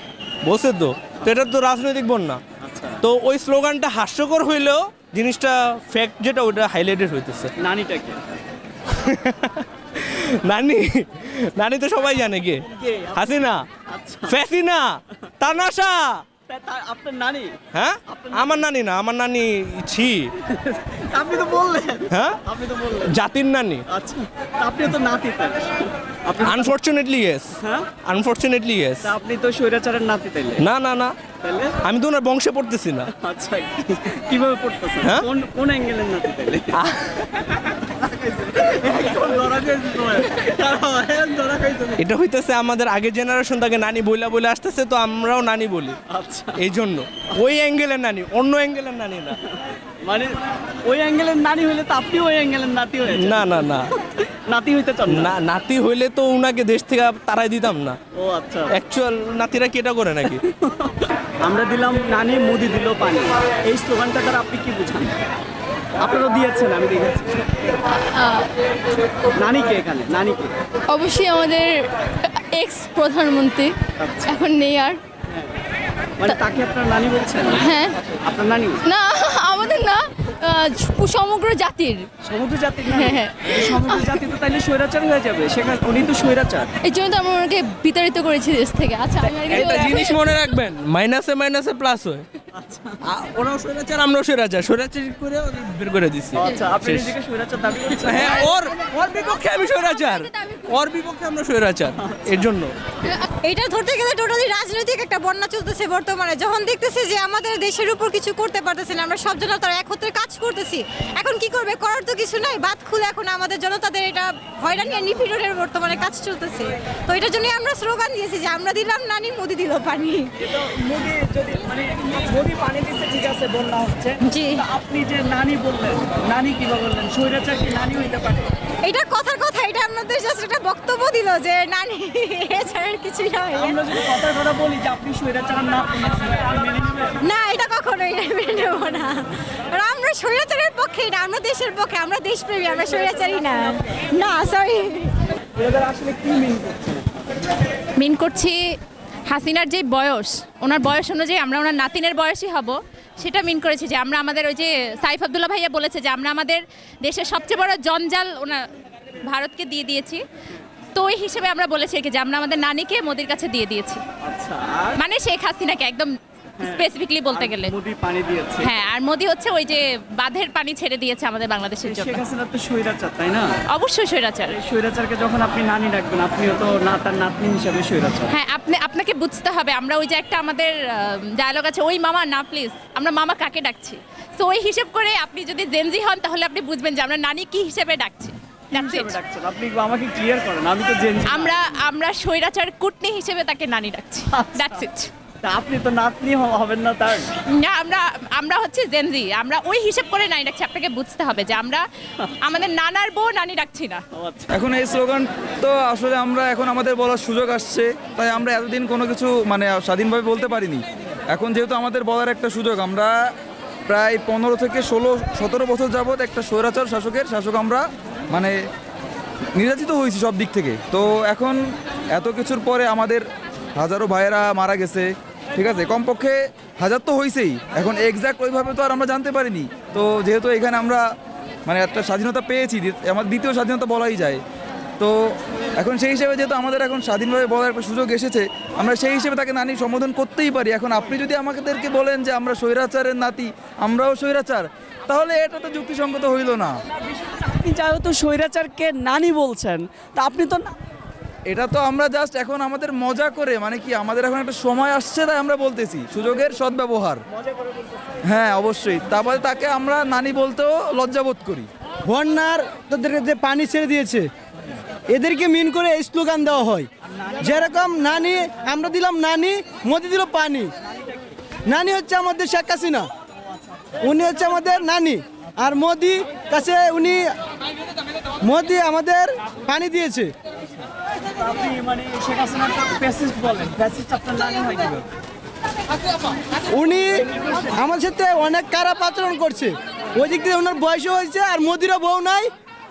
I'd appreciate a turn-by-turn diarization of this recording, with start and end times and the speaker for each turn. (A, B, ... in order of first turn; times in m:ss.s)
0:00.4-0:02.4 A
0:02.6-0:03.0 B
0:03.0-0:07.5 A
0:07.6-0:08.2 B
0:09.0-0:13.6 A
0:12.7-0:14.4 B
0:14.3-0:14.8 A
0:15.4-0:16.2 A
0:16.5-0:17.5 B
0:17.7-0:20.3 A
0:18.1-0:18.6 B
0:20.5-0:23.1 B
0:22.1-0:22.4 A
0:23.1-0:23.8 A
0:23.9-0:26.7 B
0:26.4-0:27.6 A
0:28.1-0:29.1 A
0:29.0-0:30.6 B
0:30.6-0:31.1 A
0:31.4-0:31.7 B
0:31.8-0:33.1 A
0:33.2-0:36.7 B
0:38.0-0:42.0 B
0:42.0-0:46.0 A
0:46.1-0:46.6 B
0:46.6-0:49.4 A
0:49.4-0:50.3 B
0:50.9-0:55.3 B
0:53.1-0:53.9 A
0:55.1-0:58.0 A
0:58.1-0:58.7 B
0:58.7-1:00.4 A
1:01.4-1:05.2 B
1:06.0-1:07.5 B
1:09.4-1:10.5 B
1:10.9-1:11.7 C
1:12.3-1:13.7 C
1:14.0-1:14.4 B
1:14.4-1:15.0 C
1:16.2-1:17.7 B
1:17.6-1:17.9 D
1:18.2-1:18.8 B
1:18.9-1:21.9 C
1:20.9-1:21.2 D
1:22.2-1:26.7 B
1:23.0-1:23.4 D
1:26.9-1:29.8 C
1:29.1-1:30.1 D
1:29.2-1:29.7 B
1:29.4-1:32.2 A
1:32.6-1:33.0 B
1:33.0-1:37.2 A
1:36.3-1:38.6 B
1:38.0-1:42.7 A
1:39.6-1:40.1 D
1:43.2-2:00.3 D
2:00.4-2:08.5 B
2:04.2-2:04.7 D
2:08.8-2:13.8 D
2:13.6-2:17.2 B
2:17.2-2:25.1 D
2:25.6-2:27.1 B
2:28.0-2:28.6 E
2:29.3-2:38.6 E
2:39.3-2:40.2 E
2:41.0-2:44.0 E
2:44.2-2:44.9 B
2:45.0-2:47.7 E
2:46.6-2:48.7 B
2:48.6-2:52.2 E
2:51.8-2:53.5 B
2:53.7-2:54.6 E
2:54.5-2:58.3 B
2:58.3-3:09.2 E
3:08.7-3:11.6 B
3:11.2-3:15.1 E
3:14.4-3:14.8 B
3:15.4-3:17.3 B
3:17.5-3:21.8 E
3:22.4-3:24.0 E
3:24.1-3:24.5 B
3:24.5-3:33.1 F
3:33.9-3:38.6 F
3:39.6-3:41.6 F
3:42.1-3:43.2 F
3:43.8-3:51.0 F
3:51.7-3:54.4 F
3:55.0-4:06.7 F
4:07.1-4:10.7 B
4:11.5-4:17.2 F
4:18.3-4:21.7 F
4:22.1-4:24.3 G
4:25.1-4:30.7 G
4:27.2-4:27.8 B
4:31.7-4:33.1 G
4:34.0-4:37.2 G
4:38.4-4:40.3 G
4:41.4-4:45.0 B
4:46.7-4:52.5 G